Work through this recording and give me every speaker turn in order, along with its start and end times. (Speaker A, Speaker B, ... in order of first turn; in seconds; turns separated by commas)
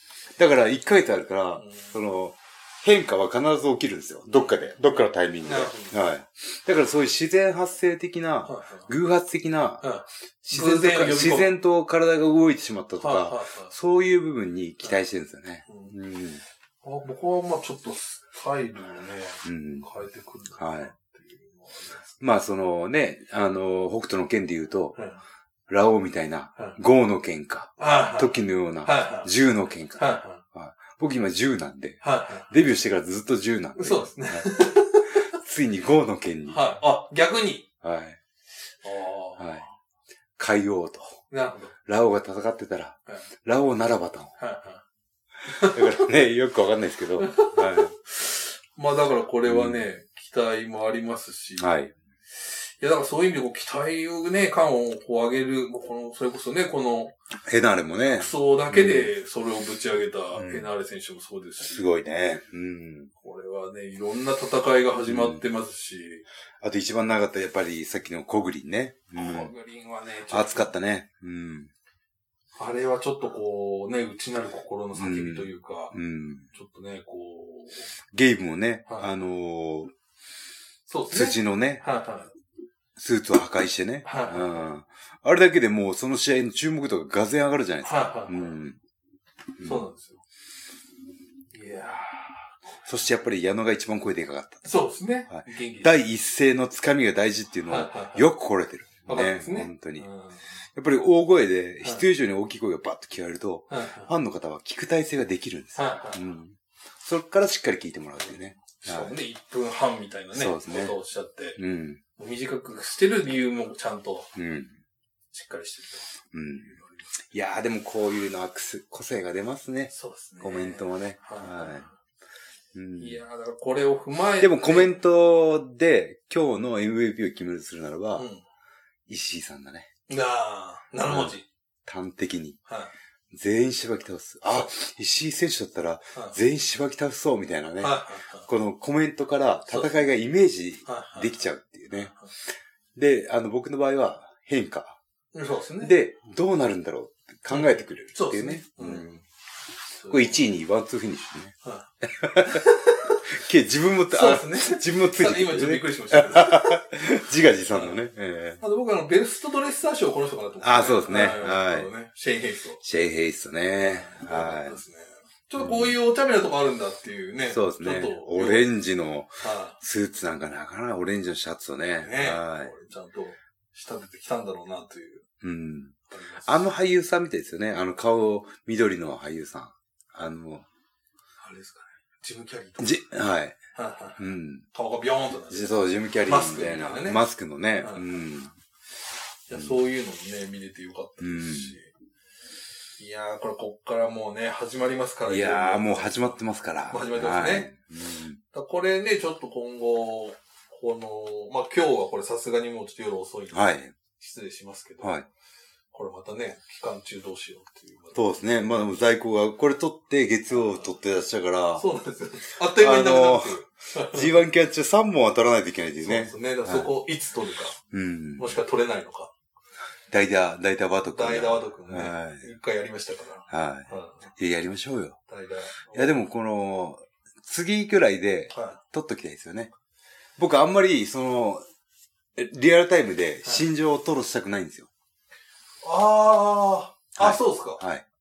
Speaker A: 0.4-9.8, Speaker B: 1.6-1.9, Speaker B: 4.3-6.0, Speaker B: 8.4-8.9, Speaker B: 9.8-11.5, Speaker A: 10.4-16.4, Speaker B: 13.0-13.7, Speaker B: 15.7-15.9, Speaker B: 16.8-22.2, Speaker A: 19.4-19.9, Speaker A: 20.6-20.9, Speaker A: 22.2-25.0, Speaker B: 24.9-25.2, Speaker A: 25.7-34.5, Speaker B: 27.8-29.3, Speaker B: 29.9-30.4, Speaker B: 32.0-32.5, Speaker B: 33.8-35.3, Speaker A: 35.3-36.7, Speaker B: 36.5-37.7, Speaker A: 37.8-38.2, Speaker B: 38.8-39.7, Speaker A: 39.4-39.6, Speaker A: 40.4-41.2, Speaker B: 41.3-41.8, Speaker A: 41.9-44.3, Speaker B: 44.4-44.8, Speaker B: 45.5-46.0, Speaker A: 45.6-47.9, Speaker B: 47.2-51.7, Speaker A: 49.4-49.8, Speaker A: 51.6-51.9, Speaker B: 52.4-57.1, Speaker A: 57.5-59.1, Speaker B: 58.2-61.8, Speaker A: 60.3-60.7, Speaker A: 61.6-63.1, Speaker B: 63.2-66.2, Speaker A: 65.1-65.4, Speaker A: 66.6-69.5, Speaker B: 69.1-70.7, Speaker A: 70.3-71.7, Speaker B: 72.5-76.0, Speaker A: 75.0-76.5, Speaker B: 76.5-77.9, Speaker A: 78.1-79.9, Speaker B: 80.9-82.3, Speaker A: 81.1-81.8, Speaker A: 83.0-88.8, Speaker B: 84.0-84.7, Speaker B: 87.8-88.6, Speaker A: 89.6-89.8, Speaker B: 89.6-90.2, Speaker B: 91.5-92.6, Speaker A: 92.8-94.6, Speaker B: 94.6-96.0, Speaker A: 95.3-100.1, Speaker B: 97.7-98.3, Speaker B: 99.0-100.4, Speaker A: 100.7-109.1, Speaker B: 103.7-104.1, Speaker B: 105.7-106.3, Speaker B: 108.3-111.6, Speaker A: 110.3-111.0, Speaker A: 111.6-112.0, Speaker B: 112.2-114.3, Speaker A: 114.3-114.7, Speaker B: 115.3-117.2, Speaker A: 116.3-121.8, Speaker B: 119.9-121.9, Speaker A: 122.7-123.2, Speaker B: 123.0-125.0, Speaker A: 124.4-128.2, Speaker B: 128.2-128.4, Speaker A: 129.1-129.9, Speaker B: 130.1-131.4, Speaker A: 131.0-132.6, Speaker B: 132.7-132.9, Speaker A: 133.3-142.1, Speaker B: 137.8-138.5, Speaker B: 140.8-141.4, Speaker B: 142.0-142.3, Speaker A: 142.9-145.0, Speaker B: 145.3-146.0, Speaker A: 145.8-149.2, Speaker B: 147.5-149.2, Speaker B: 150.0-150.4, Speaker A: 150.1-152.6, Speaker B: 151.6-153.2, Speaker A: 153.3-158.6, Speaker B: 154.1-156.8, Speaker B: 157.7-158.0, Speaker B: 158.6-162.8, Speaker A: 160.6-161.9, Speaker A: 162.8-164.8, Speaker B: 163.8-168.7, Speaker A: 165.6-165.9, Speaker A: 167.5-172.7, Speaker B: 169.4-169.8, Speaker B: 172.0-175.2, Speaker A: 175.4-180.7, Speaker B: 176.1-176.7, Speaker B: 181.4-183.1, Speaker A: 182.8-183.6, Speaker B: 183.7-187.2, Speaker A: 184.2-184.6, Speaker A: 185.5-188.5, Speaker B: 187.8-188.2, Speaker B: 189.5-191.9, Speaker A: 191.2-191.8, Speaker B: 193.0-196.4, Speaker A: 195.2-198.4, Speaker B: 196.9-197.7, Speaker B: 198.5-205.2, Speaker A: 203.5-203.9, Speaker A: 205.0-205.2, Speaker B: 205.9-208.9, Speaker A: 208.1-211.8, Speaker B: 210.5-210.9, Speaker B: 211.8-214.3, Speaker A: 212.8-216.9, Speaker B: 216.0-217.8, Speaker A: 217.9-218.6, Speaker B: 218.4-219.3, Speaker A: 220.1-222.4, Speaker B: 221.1-224.2, Speaker A: 223.5-225.2, Speaker B: 225.3-226.2, Speaker A: 225.9-229.7, Speaker B: 228.5-228.8, Speaker A: 230.4-231.6, Speaker A: 232.3-234.9, Speaker B: 235.8-237.8, Speaker A: 237.2-238.0